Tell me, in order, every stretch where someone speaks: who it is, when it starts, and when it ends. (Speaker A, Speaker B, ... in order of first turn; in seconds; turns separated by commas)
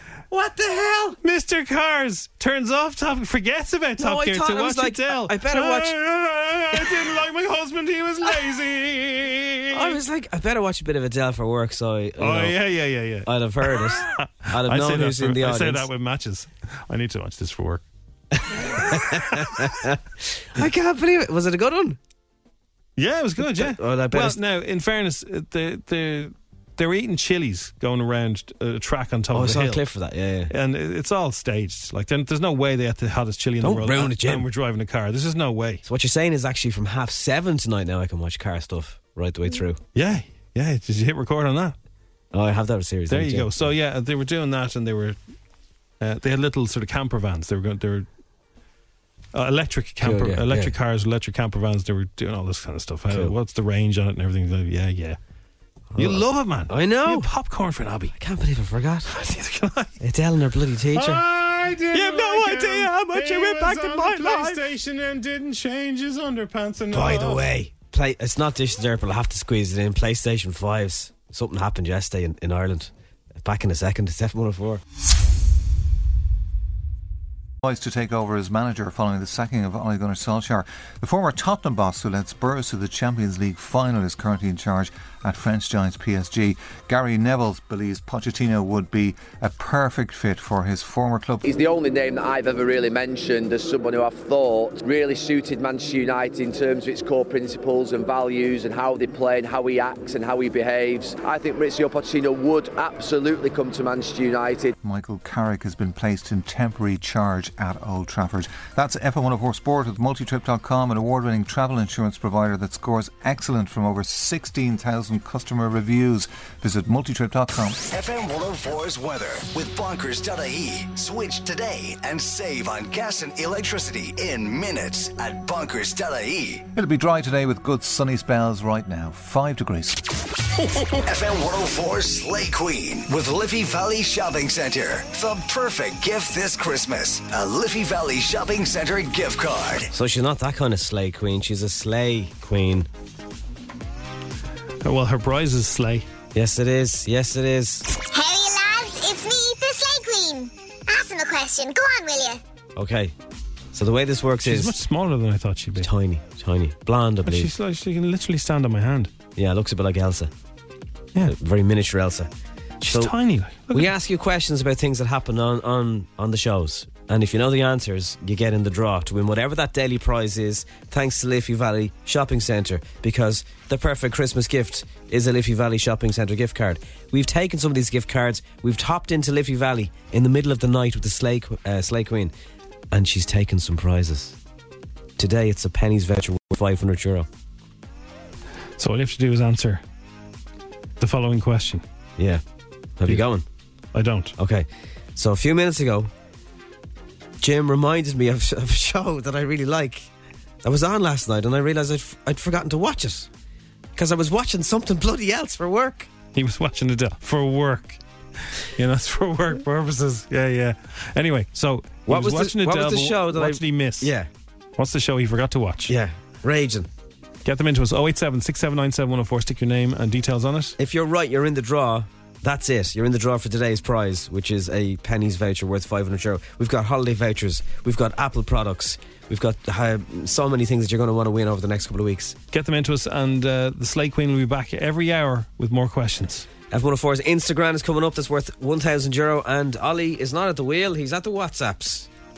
Speaker A: 0.3-1.2, Speaker B: 1.2-10.0, Speaker A: 4.0-5.9, Speaker A: 9.7-12.6, Speaker B: 12.2-17.8, Speaker A: 13.2-15.9, Speaker A: 18.5-20.0, Speaker B: 18.9-19.8, Speaker A: 20.5-22.0, Speaker B: 23.0-29.8, Speaker A: 23.4-24.4, Speaker A: 29.3-30.5, Speaker B: 30.5-35.8, Speaker A: 33.6-34.5, Speaker A: 35.9-39.8, Speaker B: 39.9-41.7, Speaker A: 42.3-43.7, Speaker B: 43.1-45.2, Speaker B: 46.0-48.1, Speaker B: 49.3-55.2, Speaker A: 50.0-50.7, Speaker A: 55.9-57.3, Speaker B: 56.0-58.1, Speaker A: 58.1-59.2, Speaker B: 59.1-60.0, Speaker A: 60.0-61.2, Speaker B: 60.9-67.5, Speaker A: 61.9-64.6, Speaker A: 66.9-74.8, Speaker C: 77.6-91.4, Speaker D: 91.4-104.7, Speaker C: 104.8-117.9, Speaker E: 117.9-126.7, Speaker C: 126.7-130.0, Speaker E: 131.0-139.9, Speaker A: 139.9-142.9, Speaker B: 144.8-146.1, Speaker A: 146.3-147.8, Speaker F: 148.1-152.4, Speaker A: 152.8-153.1, Speaker A: 153.7-154.8, Speaker B: 154.4-155.9, Speaker A: 155.8-157.5, Speaker B: 157.2-159.1, Speaker A: 159.3-160.3, Speaker A: 161.2-162.3, Speaker A: 162.8-163.1, Speaker B: 162.8-163.9, Speaker A: 163.7-182.3, Speaker A: 182.9-184.4, Speaker A: 185.2-187.3, Speaker B: 188.8-189.8, Speaker B: 191.0-191.8, Speaker A: 193.0-193.4, Speaker B: 193.9-194.3, Speaker A: 194.4-196.1, Speaker A: 197.4-200.1, Speaker A: 200.6-203.3, Speaker A: 203.9-206.1, Speaker B: 206.3-208.0, Speaker B: 208.8-214.1, Speaker A: 212.1-214.3, Speaker B: 214.8-215.9, Speaker A: 215.9-216.9, Speaker B: 217.4-220.8, Speaker A: 220.8-232.4, Speaker B: 232.5-236.5, Speaker A: 236.7-242.1